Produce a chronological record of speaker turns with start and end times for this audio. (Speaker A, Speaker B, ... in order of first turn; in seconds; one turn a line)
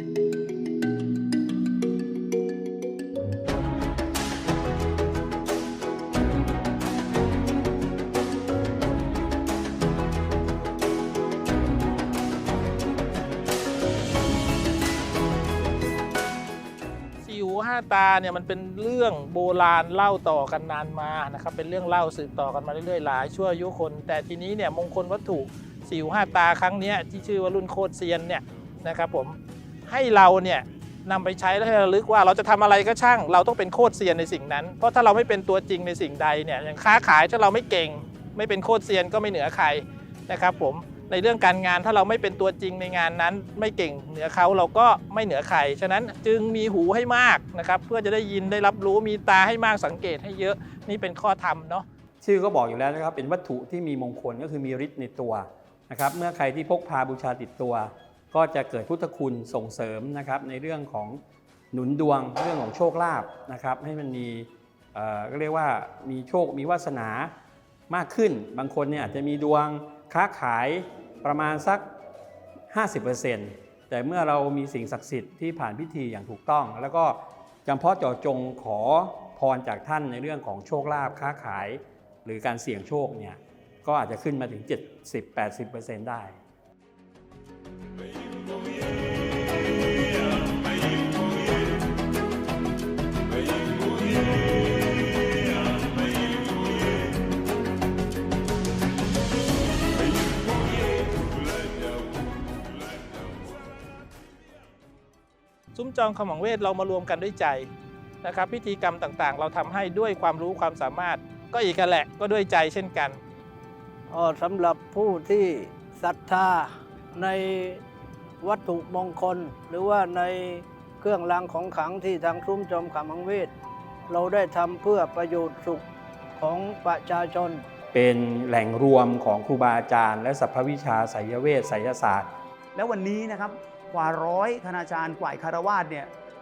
Speaker A: 17.2-51.8
Speaker B: 52.2-61.2
Speaker B: 61.7-67.3
Speaker B: 67.9-71.8
Speaker B: 72.7-86.4
Speaker A: 105.7-107.7
Speaker A: 108.2-113.2
Speaker C: 114.1-117.8
Speaker C: 118.4-123.5
Speaker C: 124.1-125.8
Speaker C: 126.4-127.6
Speaker B: 127.9-132.3
Speaker D: 132.7-136.1